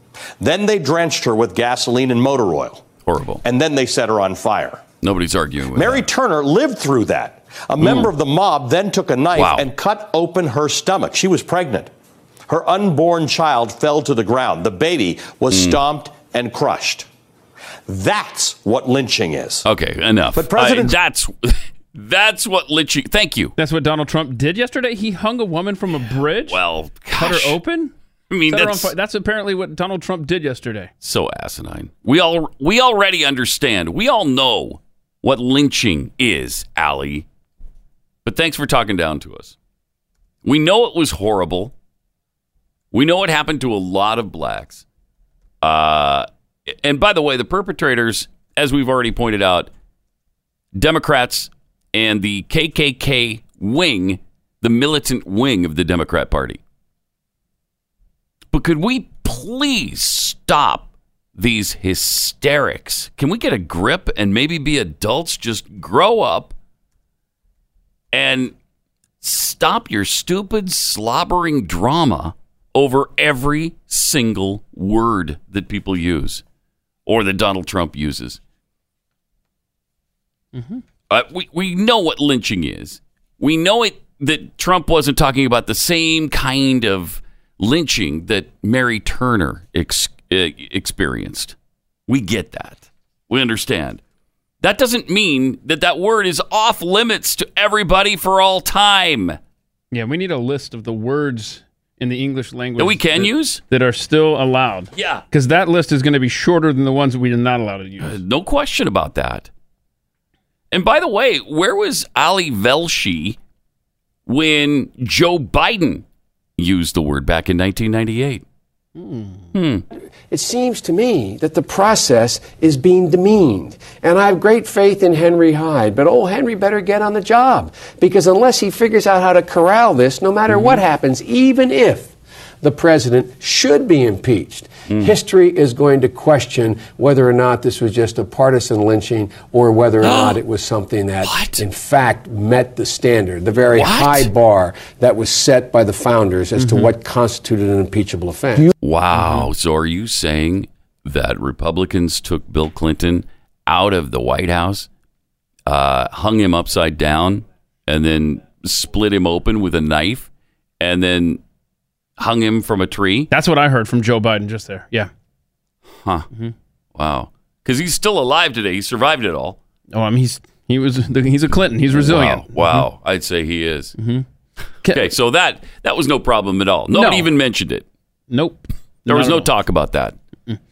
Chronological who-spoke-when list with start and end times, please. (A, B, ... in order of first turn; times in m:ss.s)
0:00.4-0:02.8 A
0:03.0-0:03.4 B
0:03.4-0:04.9 A
0:05.0-0:06.1 B
0:05.7-0:11.9 A
0:07.8-0:08.1 B
0:09.4-0:09.7 B
0:12.5-0:17.1 A
0:15.5-0:15.8 B
0:17.9-0:19.7 A
0:19.6-0:23.5 B
0:20.3-0:21.0 A
0:23.6-0:26.6 C
0:26.5-0:27.6 B
0:27.2-0:27.9 C
0:28.3-0:28.9 B
0:28.5-0:30.9 C
0:31.0-0:37.3 B
0:38.2-0:39.6 B
0:40.4-0:41.7 B
0:42.9-0:44.8 B
0:45.6-0:49.7 B
0:50.8-0:56.6 B
0:58.5-1:06.6 B
1:08.1-1:08.5 B
1:09.2-1:16.4 B
1:17.1-1:18.4 B
1:20.6-1:20.8 C
1:21.1-1:31.6 B
1:32.1-1:34.0 B
1:34.6-1:39.4 B
1:39.9-1:48.2 C
1:42.8-1:43.6 B
1:44.9-1:45.2 B
1:48.0-1:49.5 B
1:50.7-1:53.4 B
1:54.3-1:56.0 B
1:56.6-1:58.4 B
1:59.0-1:59.5 C
1:59.5-1:59.8 B
2:00.3-2:28.7 D
2:20.0-2:20.4 B
2:21.2-2:21.6 B
2:23.7-2:24.3 B
2:26.6-2:26.9 C
2:28.8-2:34.9 B
2:29.2-2:29.4 C
2:35.7-2:40.3 B
2:40.8-2:41.4 B
2:42.2-2:43.3 B
2:43.3-2:45.1 C
2:45.9-2:46.3 B
2:47.0-2:49.6 B
2:49.9-2:52.9 C
2:51.9-2:53.9 B
2:54.0-2:54.2 C
2:54.8-2:55.1 C
2:54.9-2:57.8 B
2:56.9-2:57.3 C
2:58.3-2:59.5 C
2:59.1-3:00.2 B